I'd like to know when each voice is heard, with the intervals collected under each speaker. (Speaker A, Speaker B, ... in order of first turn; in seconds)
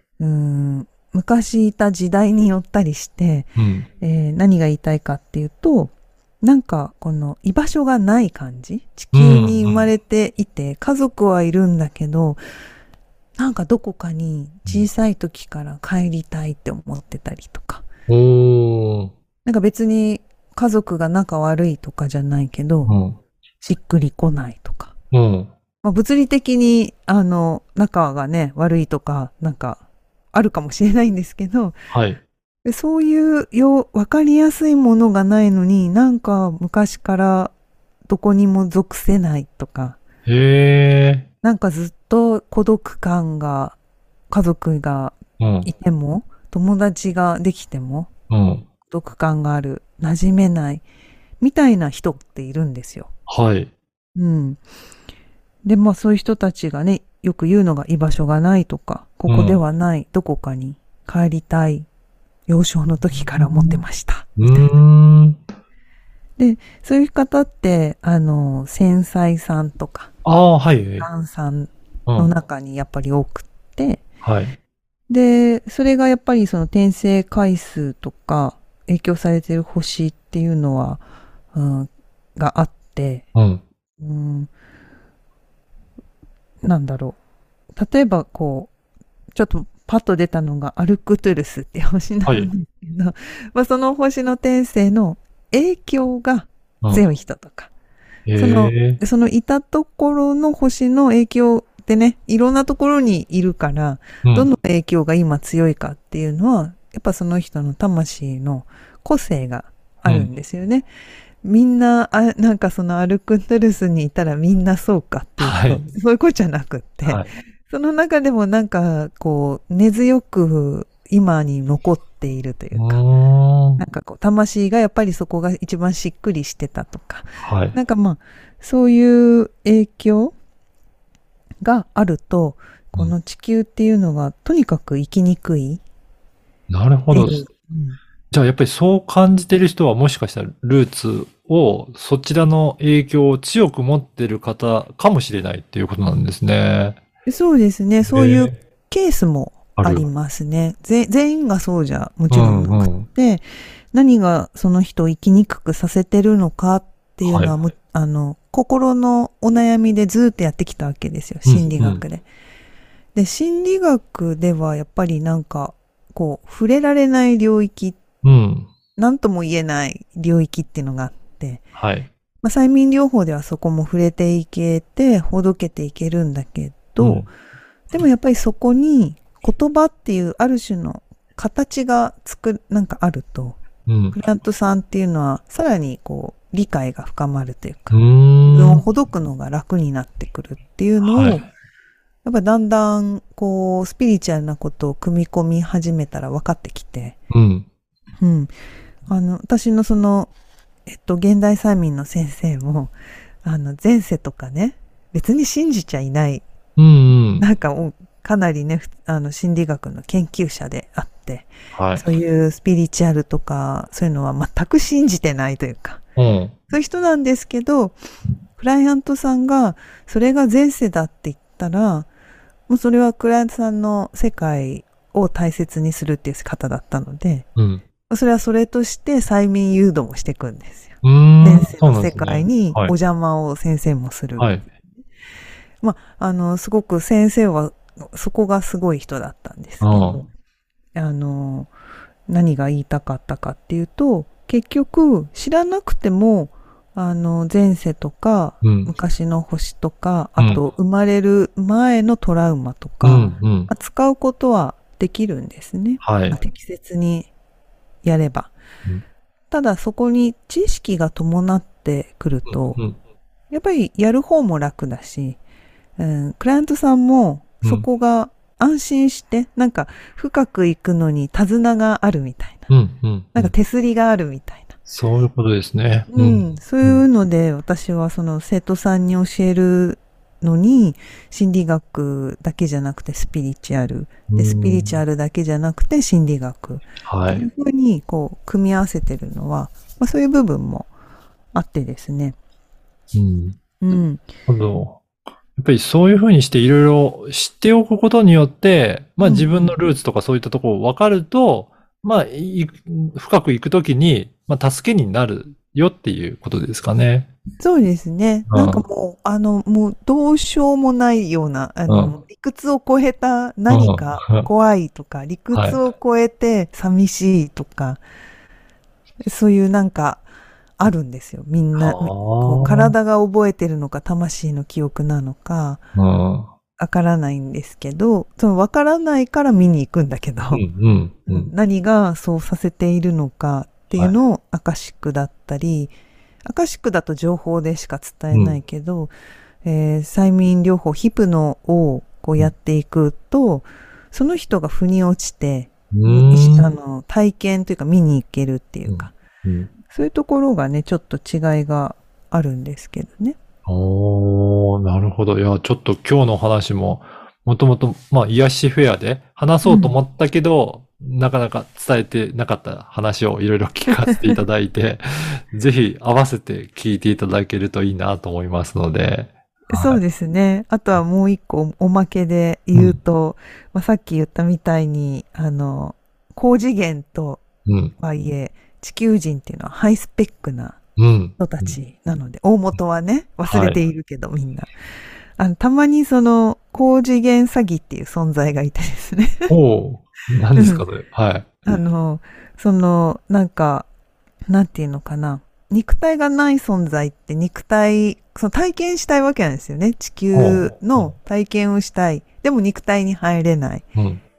Speaker A: 0.2-12.4, 13.4-17.9, 19.4-22.9, 23.6-24.9, 25.8-29.8, 30.3-31.8, 32.6-37.5, 38.1-40.0, 41.4-43.8, 44.3-48.1, 48.8-50.8, 51.4-53.1, 54.1-54.6, 55.6-61.9, 62.5-64.7, 66.4-70.1, 71.0-74.0, 75.1-83.2, 84.0-84.5, 86.6-87.2, 87.7-88.7, 89.3-97.7, 98.3-110.8, 111.4-123.0, 123.8-130.3, 131.6-135.8, 137.1-138.0, 147.2-162.3, 163.1-168.0, 169.0-171.7, 172.4-177.3, 177.9-183.6, 184.1-191.5, 192.2-197.2, 198.2-198.5, 199.1-200.3, 200.8-206.4, 207.4-216.0, 216.7-218.0, 218.5-222.1, 222.7-227.4, 228.1-234.5, 235.8-240.3, 240.9-241.7, 242.3-257.3, 258.0-258.5, 259.5-262.8, 263.5-265.4, 266.0-272.7, 273.3-274.7, 276.1-290.9, 291.5-292.4, 293.8-294.3, 299.2-299.8, 307.6-318.0, 319.2-320.2, 320.8-325.8, 326.8-330.6, 331.3-335.9, 336.4-339.1, 339.6-349.1, 349.9-353.4, 359.6-359.9, 363.9-364.4, 369.7-377.4, 377.9-380.8, 381.4-384.7, 385.4-389.5, 390.5-390.8, 391.6-393.9, 394.5-403.8
Speaker B: 3.5-3.9, 9.1-9.9, 18.1-19.1, 22.9-23.2, 25.1-25.5, 31.9-32.2, 40.2-41.2, 45.4-45.7, 48.3-48.6, 53.3-53.7, 59.3-59.6, 64.4-65.4, 70.2-71.1, 72.1-72.3, 74.2-74.5, 83.3-83.6, 92.2-92.5, 98.3-99.0, 104.2-104.5, 115.4-115.8, 122.8-123.8, 127.4-127.8, 136.7-137.4, 138.3-147.0, 148.0-148.5, 149.8-150.1, 152.3-153.1, 157.2-157.5, 161.4-162.0, 168.2-168.7, 171.7-172.1, 177.0-177.2, 183.9-184.2, 187.9-188.8, 191.0-191.4, 197.3-197.7, 206.8-207.4, 211.7-212.1, 216.2-216.5, 227.6-227.8, 231.0-232.9, 234.4-234.6, 239.8-240.2, 248.6-248.9, 253.0-253.7, 256.0-256.4, 262.5-263.0, 272.7-273.5, 274.9-277.0, 284.3-285.0, 287.0-287.4, 293.1-293.6, 294.5-295.0, 295.6-307.3, 308.5-308.8, 311.9-312.1, 313.7-314.5, 315.5-315.8, 321.8-322.9, 325.9-326.5, 330.5-331.5, 338.3-338.6, 345.9-346.7, 348.9-349.7, 353.6-370.0, 377.6-377.9, 381.0-381.8, 383.5-383.8, 389.5-391.8, 400.3-401.1, 403.9-404.2